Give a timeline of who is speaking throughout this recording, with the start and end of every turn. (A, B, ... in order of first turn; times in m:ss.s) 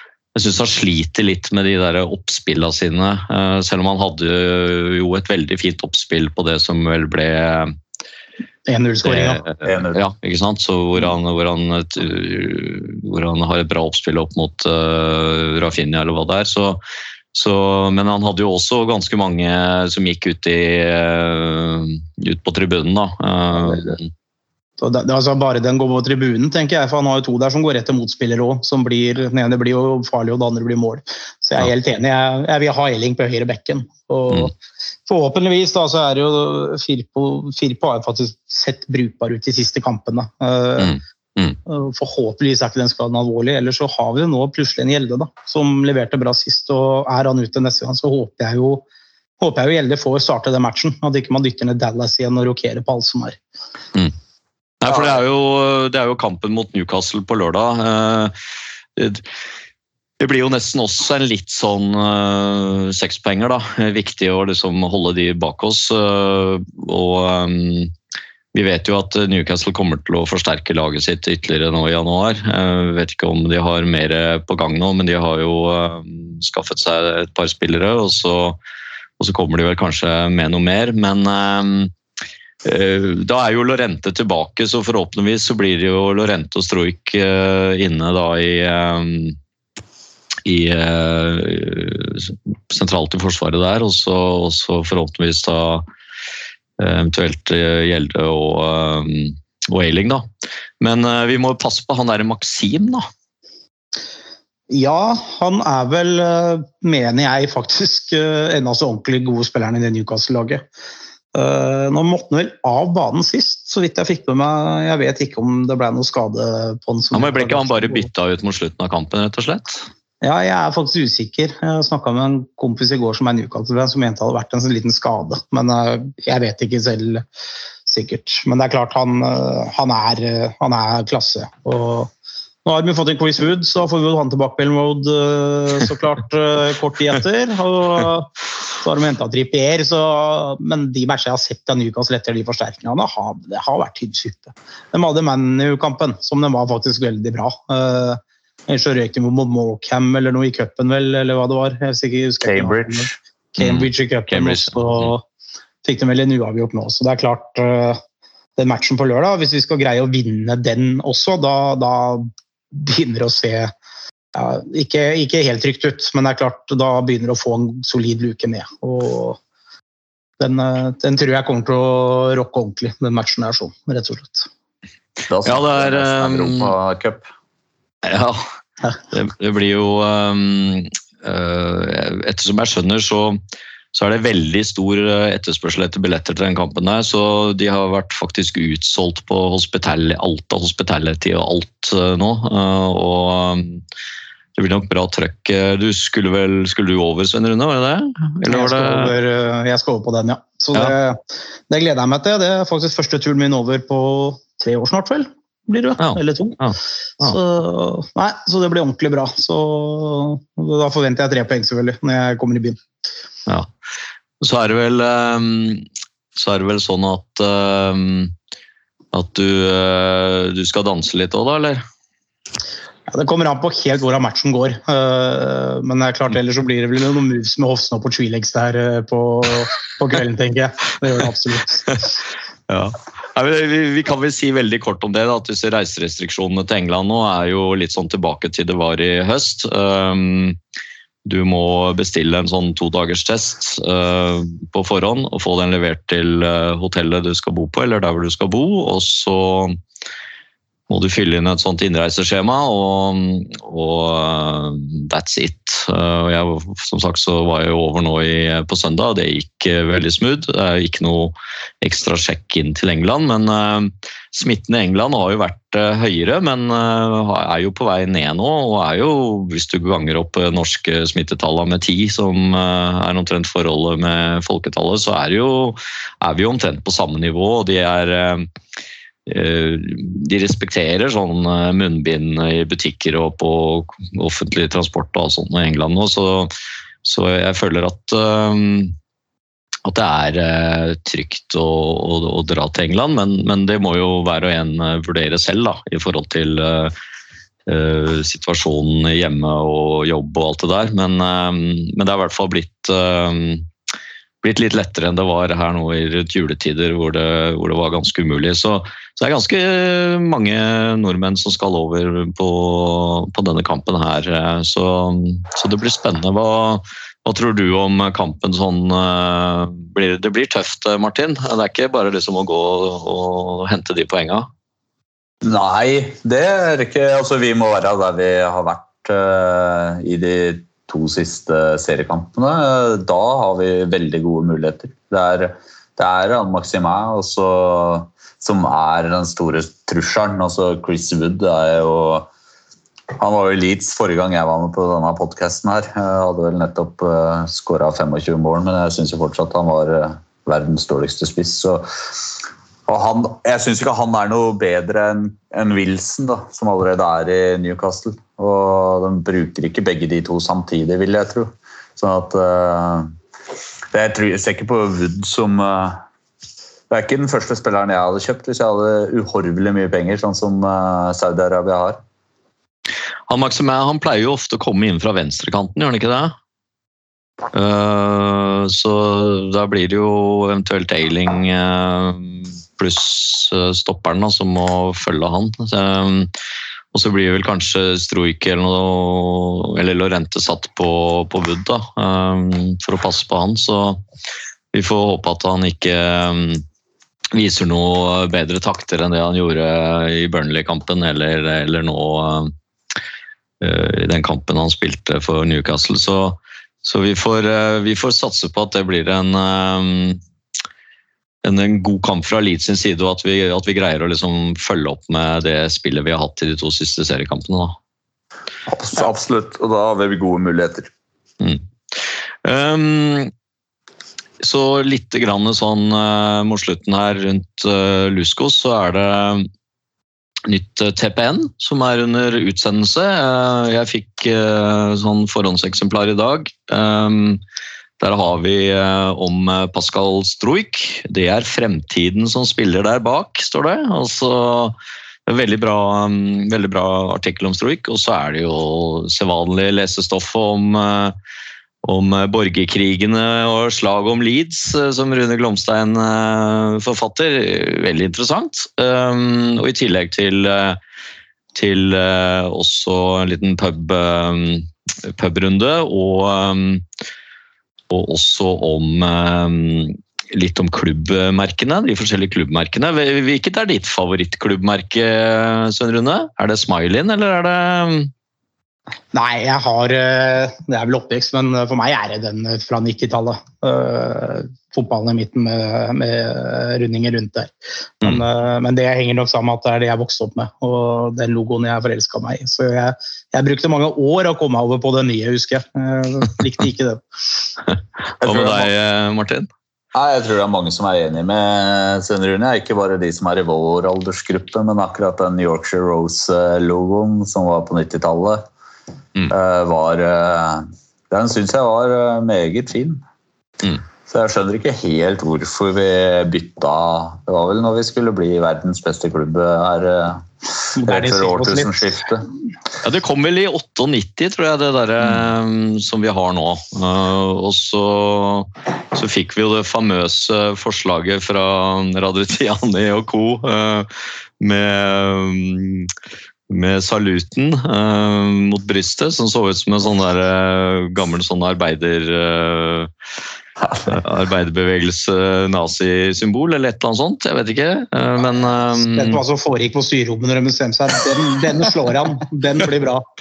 0:00.4-0:07.8 A
0:08.7-0:09.4 B
0:09.0-0:16.8 A
0:09.6-0:10.0 C
0:17.3-0:24.1 A
0:24.8-0:34.5 B
0:35.1-0:41.0 B
0:40.8-0:41.6 A
0:41.7-0:48.8 B
0:49.4-0:53.4 B
0:54.8-0:58.3 A
0:59.0-0:59.2 A
1:00.2-1:07.9 A
1:08.5-1:18.6 A
1:19.2-1:21.9 A
1:22.6-1:29.4 A
1:30.4-1:35.8 A
1:36.8-1:40.3 A
1:40.8-1:43.1 A
1:44.7-1:50.6 B
1:51.3-1:58.1 B
1:57.1-1:59.9 A
2:00.2-2:07.2 B
2:07.9-2:12.1 B
2:12.6-2:35.2 B
2:32.4-2:33.2 C
2:33.6-2:35.1 A
2:35.8-2:38.0 B
2:38.6-2:43.7 B
2:44.4-2:49.4 B
2:50.4-2:54.5 B
2:55.3-2:57.3 C
2:55.4-2:56.7 A
2:58.0-2:58.5 A
2:59.1-3:03.4 A
3:03.9-3:13.8 A
3:14.6-3:19.1 A
3:18.5-3:26.6 B
3:26.0-3:27.4 A
3:27.2-3:32.8 B
3:34.4-3:35.8 A
3:36.4-3:38.3 A
3:39.1-3:41.8 A
3:43.1-3:52.0 B
3:52.7-4:00.6 A
4:01.2-4:09.8 A
4:10.9-4:38.5 A
4:39.3-4:46.5 A
4:47.0-4:49.0 A
4:49.8-4:56.9 A
4:57.7-5:03.7 A
5:04.4-5:24.5 A
5:25.4-5:42.3 C
5:43.2-5:51.9 C
5:52.9-6:03.1 C
6:03.9-6:06.0 C
6:06.9-6:12.0 C
6:13.3-6:16.4 A
6:17.5-6:26.3 A
6:26.9-6:34.0 A
6:34.7-6:36.6 A
6:37.3-6:42.5 A
6:43.6-6:50.2 A
6:51.4-6:57.8 A
6:58.7-7:00.9 C
7:01.4-7:03.3 A
7:04.4-7:09.5 A
7:10.5-7:17.4 A
7:18.0-7:24.8 A
7:25.3-7:31.2 A
7:31.8-7:40.8 A
7:41.5-7:46.8 A
7:47.9-7:58.1 A
7:59.1-8:17.0 B
8:18.2-8:19.5 A
8:18.2-8:18.7 C
8:19.9-8:28.5 C
8:29.3-8:33.0 C
8:34.1-8:42.3 C
8:40.7-8:41.8 B
8:42.8-8:55.9 A
8:56.5-9:02.9 A
9:03.9-9:09.2 A
9:08.8-9:13.0 B